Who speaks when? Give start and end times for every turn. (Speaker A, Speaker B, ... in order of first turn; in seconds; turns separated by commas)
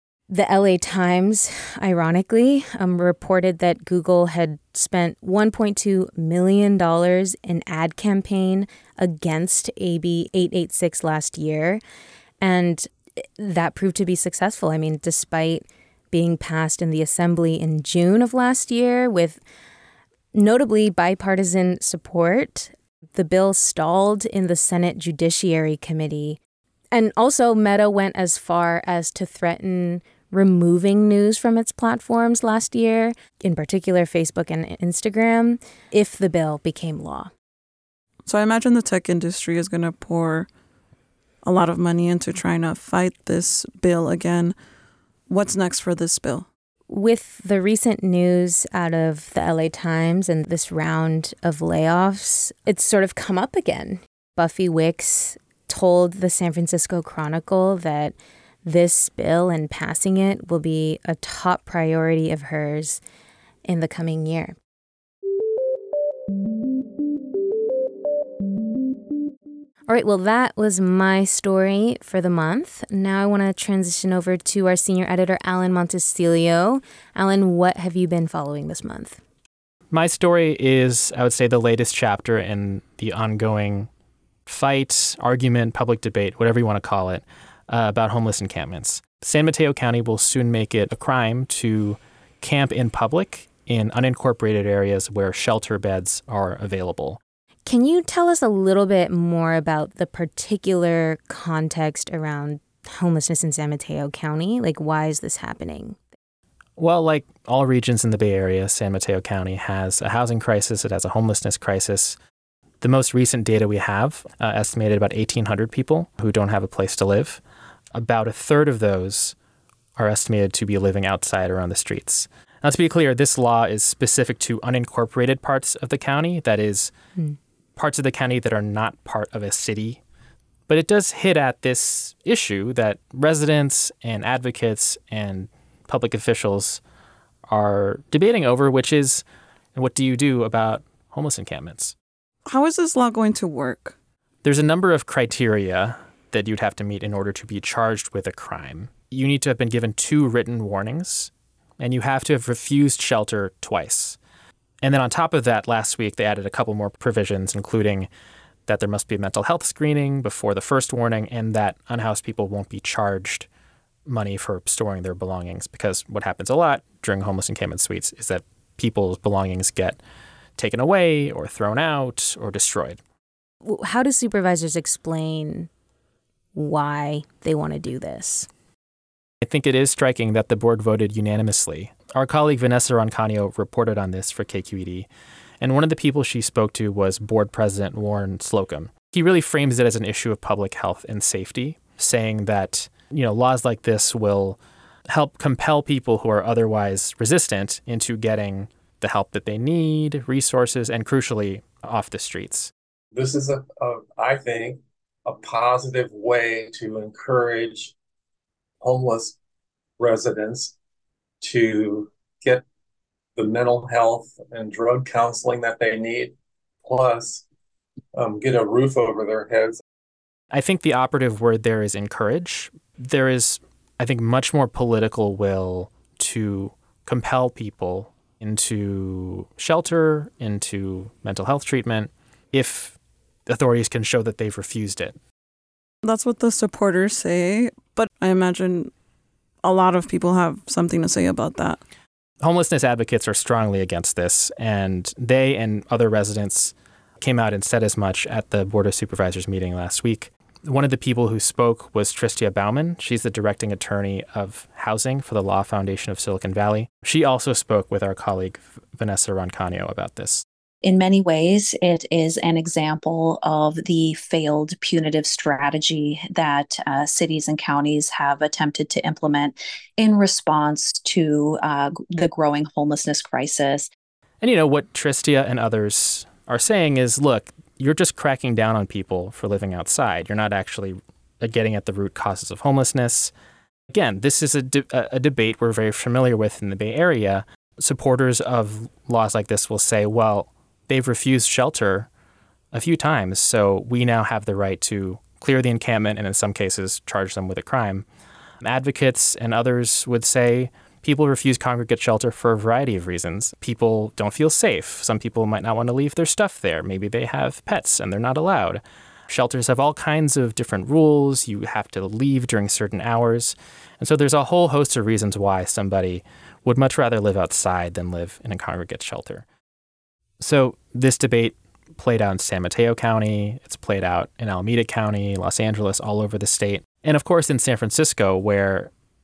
Speaker A: 0.3-11.8, Speaker A: 12.4-19.4, Speaker A: 20.3-26.4, Speaker A: 26.9-37.3, Speaker B: 38.3-40.5, Speaker B: 41.4-44.6, Speaker B: 45.3-46.5, Speaker A: 46.9-63.0, Speaker A: 63.7-64.6, Speaker A: 69.9-79.2, Speaker C: 79.9-83.9, Speaker C: 84.5-97.2, Speaker A: 97.7-106.1, Speaker C: 106.8-112.2, Speaker C: 112.8-117.4, Speaker C: 117.9-119.3, Speaker C: 120.0-126.9, Speaker C: 127.8-130.0, Speaker C: 130.7-136.8, Speaker C: 137.5-139.2, Speaker C: 139.8-141.9, Speaker B: 142.5-143.9, Speaker C: 144.4-154.2, Speaker C: 154.8-158.1, Speaker C: 158.7-163.5, Speaker C: 164.1-170.0, Speaker C: 170.6-173.0, Speaker A: 173.6-175.7, Speaker A: 176.6-178.5, Speaker C: 179.4-185.1, Speaker C: 185.6-202.7, Speaker D: 203.2-207.9, Speaker D: 208.8-209.3, Speaker D: 210.0-210.7, Speaker D: 211.4-212.6, Speaker D: 213.4-217.4, Speaker D: 218.2-219.8, Speaker C: 220.5-235.2, Speaker B: 236.0-238.9, Speaker B: 239.6-241.8, Speaker C: 242.4-260.4, Speaker E: 260.8-273.9, Speaker C: 274.4-283.3, Speaker C: 283.9-292.1, Speaker C: 292.7-298.1, Speaker C: 298.6-319.4, Speaker C: 320.4-328.9